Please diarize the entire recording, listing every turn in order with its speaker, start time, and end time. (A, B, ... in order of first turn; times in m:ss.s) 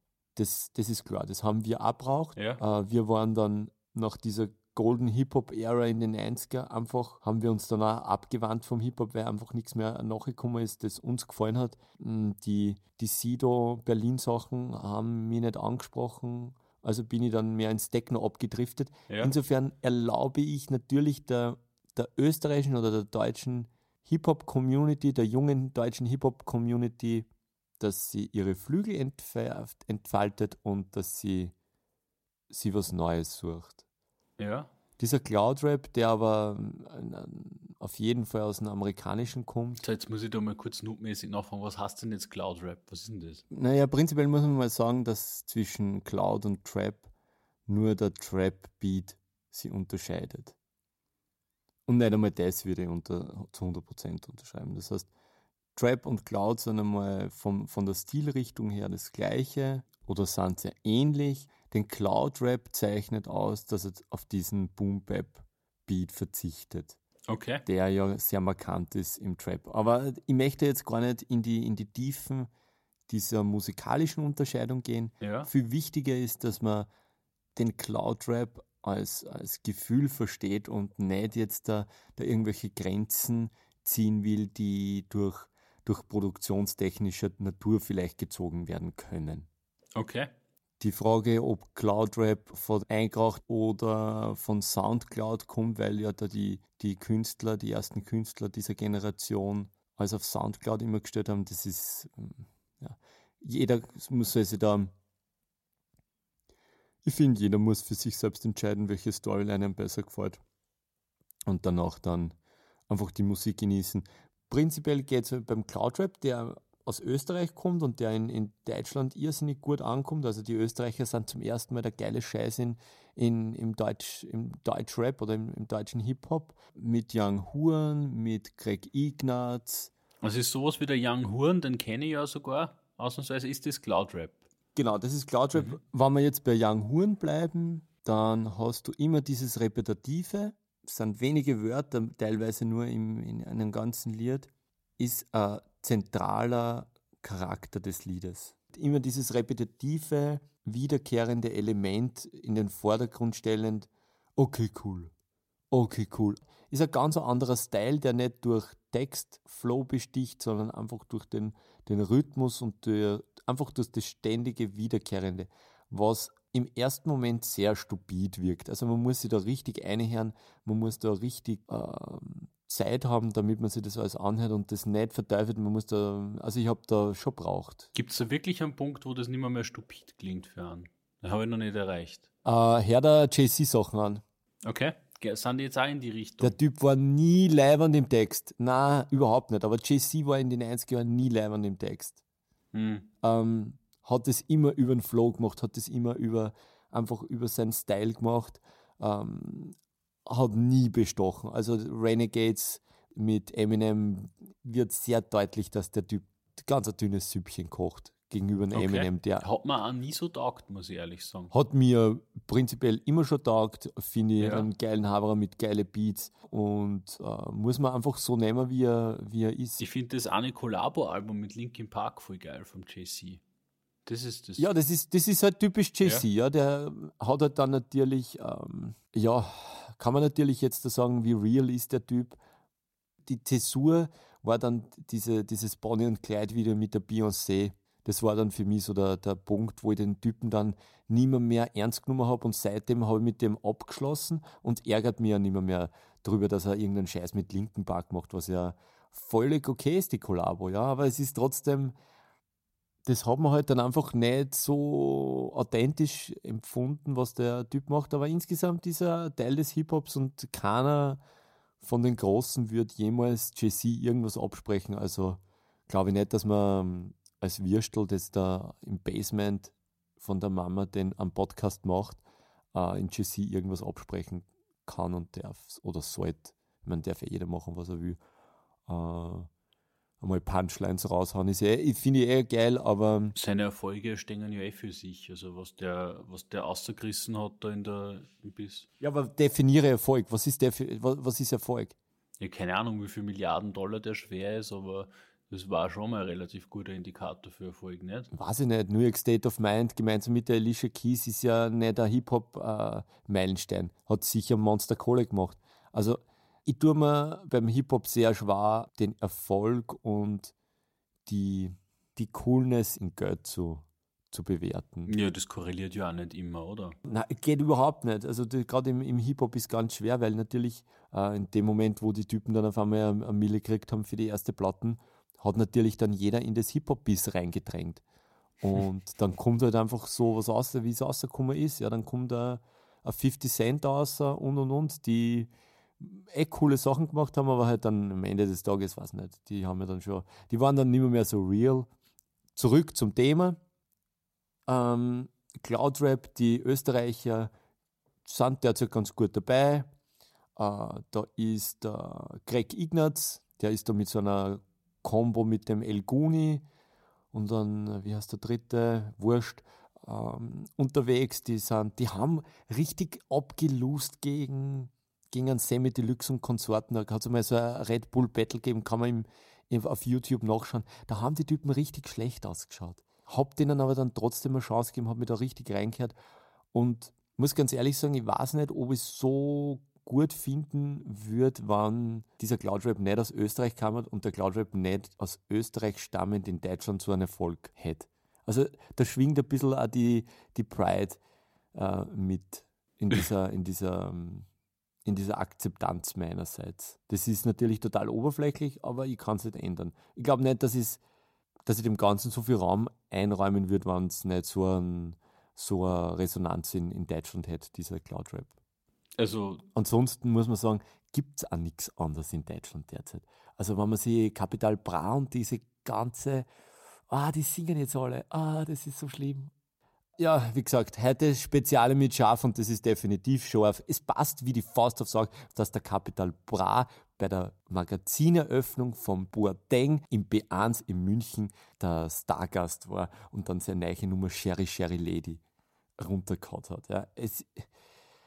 0:00.4-0:27.3 A
0:02.4-0:02.6 B
0:27.8-0:31.5 A
0:32.5-0:33.8 A
0:34.4-0:34.7 B
0:35.0-0:39.8 A
0:39.8-0:43.4 B
0:43.5-0:47.1 A
0:47.7-0:50.5 A
0:51.9-0:55.1 A
0:55.8-1:07.0 A
1:07.3-1:07.6 B
1:07.6-1:12.5 A
1:13.1-1:16.9 A
1:15.2-1:15.5 B
1:17.5-1:29.5 A
1:30.0-1:30.3 B
1:30.8-1:44.9 A
1:47.0-1:50.4 A
1:51.5-1:52.3 A
1:52.9-2:09.9 A
2:10.2-2:14.4 B
2:14.8-2:35.1 A
2:15.5-2:15.8 B
2:35.7-2:57.9 A
2:57.9-3:02.3 B
3:02.4-3:04.2 A
3:04.6-3:06.6 B
3:06.4-3:12.2 A
3:12.7-3:13.1 B
3:13.2-3:19.7 A
3:20.2-3:29.4 A
3:28.7-3:31.5 B
3:31.5-3:39.8 A
3:34.4-3:34.7 B
3:39.8-3:43.4 B
3:44.0-3:44.7 B
3:44.6-3:52.4 A
3:53.2-4:11.9 A
4:13.0-4:21.2 A
4:21.8-4:32.2 A
4:32.7-4:38.2 A
4:38.9-4:39.5 A
4:40.2-4:43.3 A
4:43.3-4:48.9 B
4:49.0-4:51.9 A
4:52.4-4:58.3 B
4:58.3-5:10.5 A
5:11.2-5:15.1 A
5:15.0-5:17.0 B
5:17.0-5:28.0 A
5:28.6-5:41.9 A
5:42.6-5:43.6 A
5:44.7-5:47.5 A
5:48.2-5:49.9 A
5:50.6-5:56.6 A
5:57.3-6:16.1 A
6:16.7-6:31.2 A
6:31.7-6:34.5 A
6:35.0-6:41.0 A
6:41.6-6:48.5 A
6:49.2-6:49.6 B
6:49.7-6:56.5 A
6:57.1-6:59.5 A
7:00.2-7:15.4 A
7:16.0-7:17.7 A